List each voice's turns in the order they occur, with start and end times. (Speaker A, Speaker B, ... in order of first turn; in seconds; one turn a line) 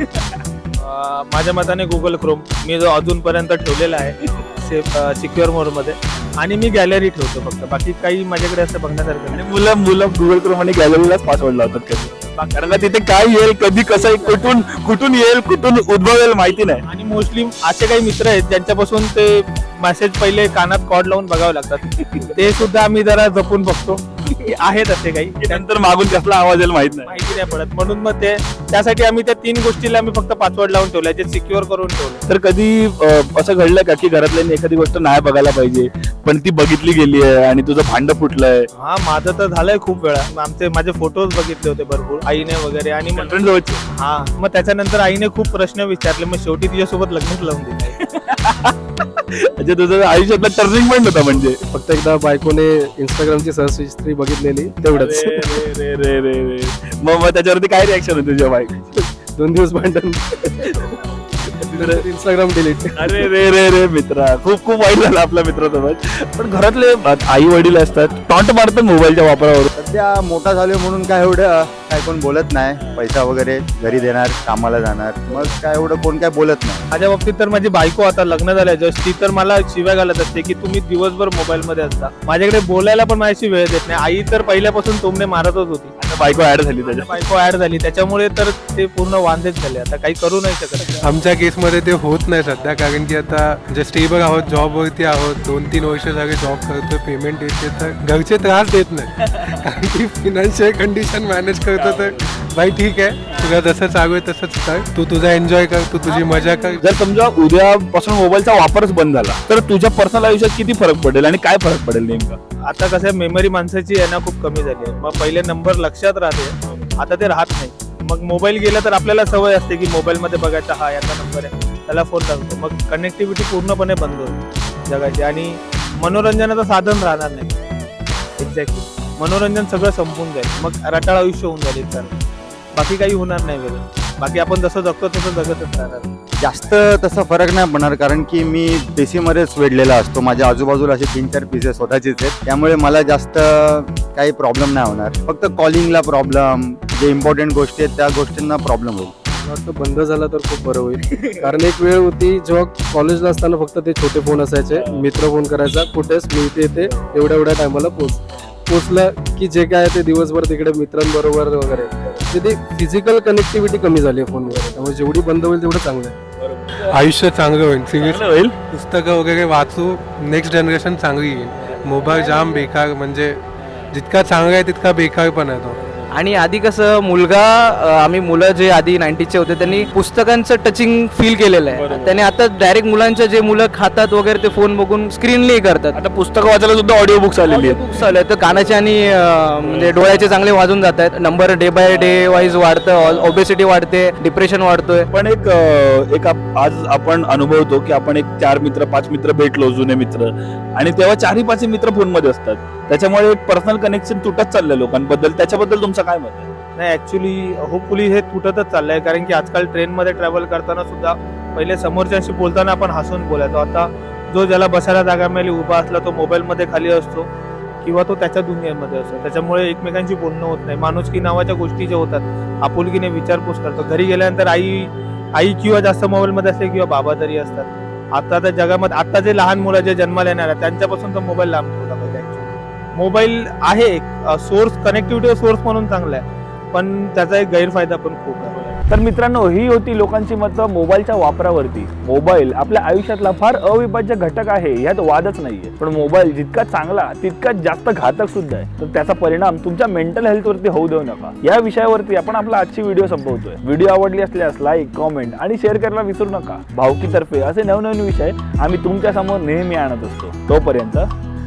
Speaker A: 0.8-9.5
Speaker B: 9.3-16.8
Speaker A: 12.0-12.9
Speaker A: 13.9-14.5
Speaker A: 16.8-25.7
Speaker B: 25.4-27.1
Speaker A: 27.1-32.2
Speaker B: 32.3-38.7
Speaker A: 38.8-48.0
Speaker B: 43.2-43.8
Speaker B: 48.0-51.6
Speaker C: 51.6-55.6
Speaker B: 54.9-58.8
Speaker C: 58.9-61.0
Speaker B: 60.6-60.9
Speaker B: 61.6-62.0
Speaker C: 61.7-63.3
Speaker B: 63.0-69.7
Speaker D: 69.7-76.8
Speaker A: 76.9-85.9
Speaker B: 86.0-87.1
Speaker A: 86.8-91.0
Speaker E: 91.0-106.8
Speaker B: 101.8-102.1
Speaker B: 106.8-112.4
Speaker A: 112.7-127.6
Speaker A: 128.4-132.2
Speaker A: 132.8-136.1
Speaker D: 136.4-149.1
Speaker C: 149.4-166.1
Speaker B: 166.4-167.0
Speaker E: 166.8-173.4
Speaker B: 167.9-168.6
Speaker B: 171.6-172.7
Speaker B: 173.6-173.9
Speaker E: 173.9-175.8
Speaker B: 175.8-176.1
Speaker F: 176.1-186.0
Speaker B: 179.6-179.9
Speaker B: 181.7-182.3
Speaker B: 185.9-187.8
Speaker F: 187.5-195.1
Speaker B: 189.6-190.1
Speaker B: 195.1-206.5
Speaker A: 206.8-217.3
Speaker A: 217.8-238.6
Speaker B: 238.9-261.1